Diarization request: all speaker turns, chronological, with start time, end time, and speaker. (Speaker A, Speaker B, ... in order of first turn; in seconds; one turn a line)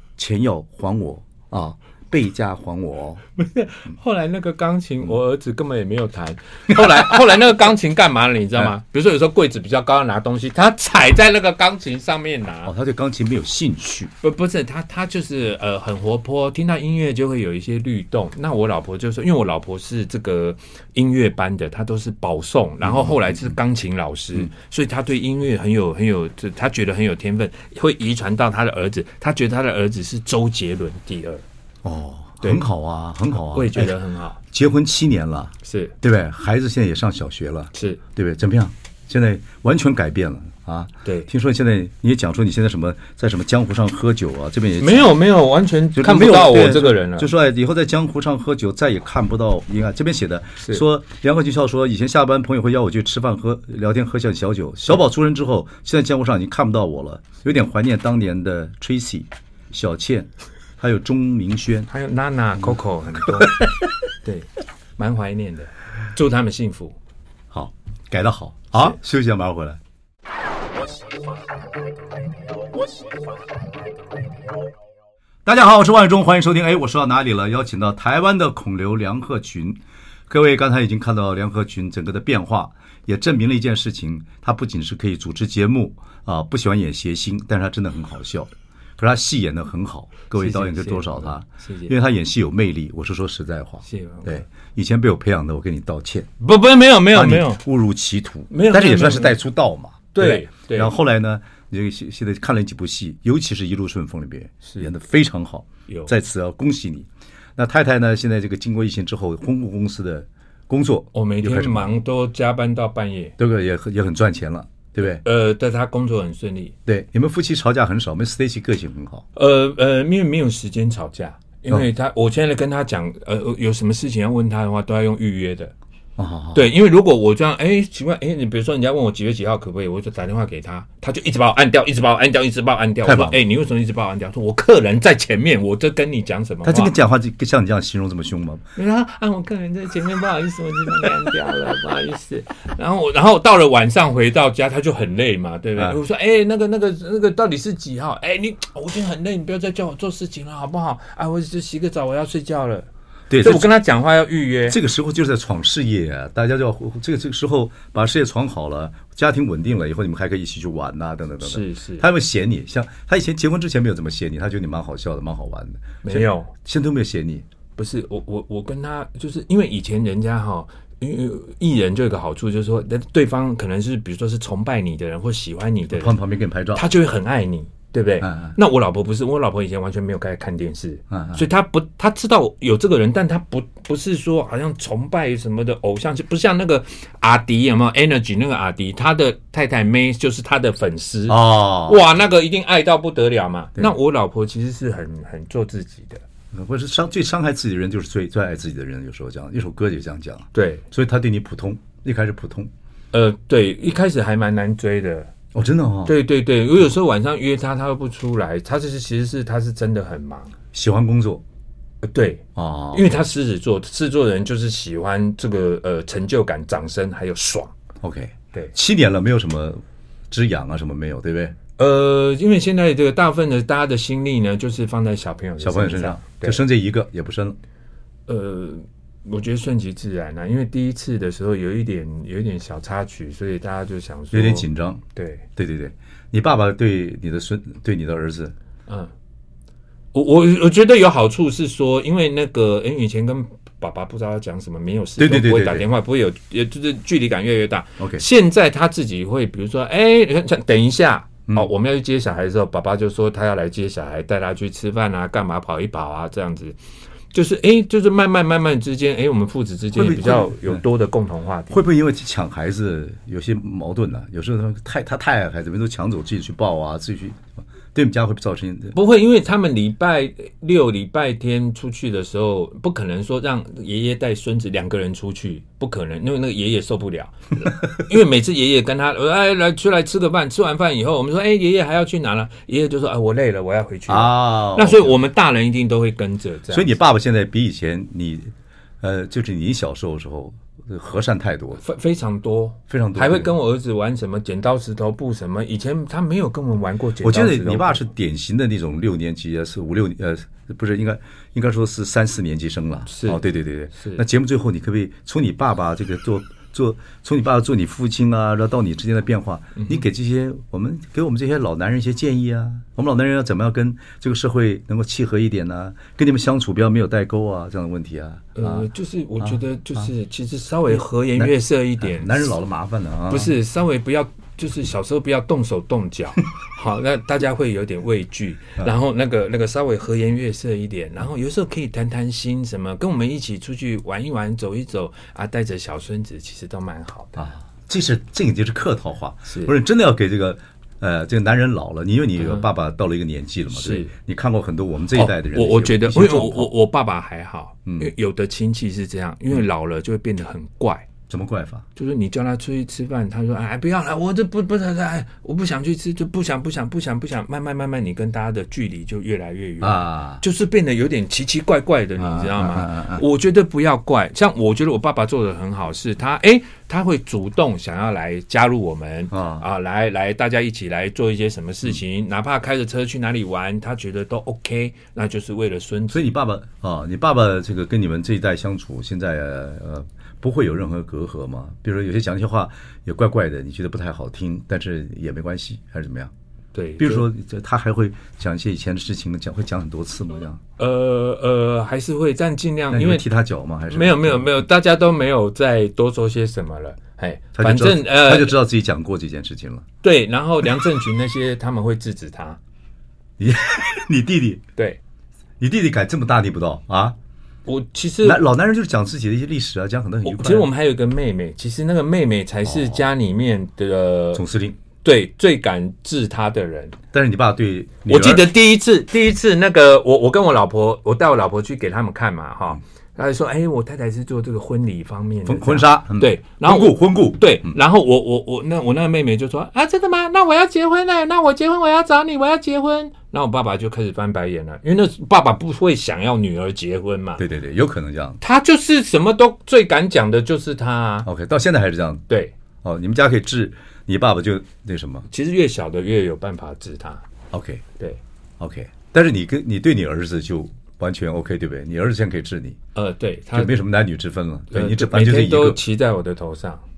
Speaker A: 0.2-3.2
Speaker B: 3.4-12.7
Speaker A: 6.7-7.0
Speaker A: 12.6-14.1
Speaker B: 14.2-31.4
Speaker A: 22.8-23.5
Speaker A: 31.8-34.0
Speaker B: 33.4-34.4
Speaker A: 34.5-45.1
Speaker B: 35.6-35.9
Speaker B: 37.7-38.0
Speaker B: 44.8-47.3
Speaker A: 45.9-61.9
Speaker B: 61.9-63.7
Speaker B: 64.2-67.0
Speaker A: 67.5-69.8
Speaker A: 75.4-96.3
Speaker B: 90.3-91.9
Speaker B: 93.8-94.5
Speaker B: 96.4-97.6
Speaker A: 97.1-111.9
Speaker B: 98.5-99.4
Speaker B: 100.1-100.9
Speaker B: 104.6-104.9
Speaker B: 111.1-113.3
Speaker A: 113.4-115.2
Speaker B: 115.1-116.7
Speaker A: 116.8-119.2
Speaker B: 119.3-125.7
Speaker A: 126.2-126.7
Speaker B: 126.5-136.9
Speaker A: 133.0-133.4
Speaker A: 136.6-138.6
Speaker B: 138.8-152.9
Speaker A: 153.3-153.8
Speaker B: 153.4-154.8
Speaker A: 154.7-167.4
Speaker B: 161.4-162.1
Speaker B: 166.0-166.5
Speaker B: 167.8-176.2
Speaker A: 175.9-176.8
Speaker B: 176.7-196.2
Speaker A: 178.2-178.5
Speaker A: 181.1-181.4
Speaker A: 191.3-192.0
Speaker A: 196.5-202.7
Speaker B: 200.5-200.8
Speaker B: 203.1-205.3
Speaker A: 205.5-206.1
Speaker B: 206.1-210.5
Speaker A: 210.7-211.4
Speaker B: 212.0-217.7
Speaker A: 212.6-213.0
Speaker A: 218.0-221.6
Speaker B: 221.8-226.6
Speaker A: 225.6-227.6
Speaker B: 228.3-235.4
Speaker A: 234.3-235.0
Speaker A: 235.6-238.5
Speaker B: 240.1-256.8
Speaker A: 245.2-245.8
Speaker B: 257.3-261.8
Speaker A: 259.9-260.8
Speaker A: 261.7-268.9
Speaker B: 268.9-287.0
Speaker A: 284.1-285.2
Speaker A: 286.7-291.8
Speaker B: 291.8-298.1
Speaker A: 292.9-293.5
Speaker A: 297.2-318.9
Speaker B: 303.1-303.4
Speaker B: 303.9-304.2
Speaker B: 309.7-310.0
Speaker B: 318.5-322.5
Speaker A: 319.4-320.1
Speaker A: 320.9-323.5
Speaker B: 323.3-337.5
Speaker A: 337.4-346.7
Speaker B: 339.5-339.7
Speaker B: 342.4-342.7
Speaker B: 343.7-344.1
Speaker B: 345.1-351.1
Speaker A: 351.3-351.8
Speaker B: 351.9-376.2
Speaker A: 359.8-360.4
Speaker A: 362.2-363.2
Speaker A: 369.3-369.6
Speaker A: 376.1-386.3
Speaker B: 386.7-387.3
Speaker A: 387.0-390.6
Speaker B: 390.8-393.2
Speaker A: 392.9-394.5
Speaker B: 393.9-398.6
Speaker A: 397.6-399.9
Speaker B: 400.0-402.6
Speaker A: 403.4-404.6
Speaker A: 405.6-407.2
Speaker B: 407.6-408.5
Speaker A: 408.2-410.7
Speaker B: 410.2-414.4
Speaker A: 412.6-413.1
Speaker A: 414.3-414.8
Speaker B: 415.0-417.0
Speaker A: 417.1-418.5
Speaker B: 418.1-437.4
Speaker A: 425.4-427.7
Speaker A: 437.4-438.4
Speaker B: 438.4-441.3
Speaker A: 441.2-442.2
Speaker A: 442.8-445.3
Speaker B: 445.3-447.2
Speaker A: 447.5-447.8
Speaker A: 448.6-452.8
Speaker B: 452.9-453.8
Speaker A: 453.5-455.8
Speaker B: 454.7-456.8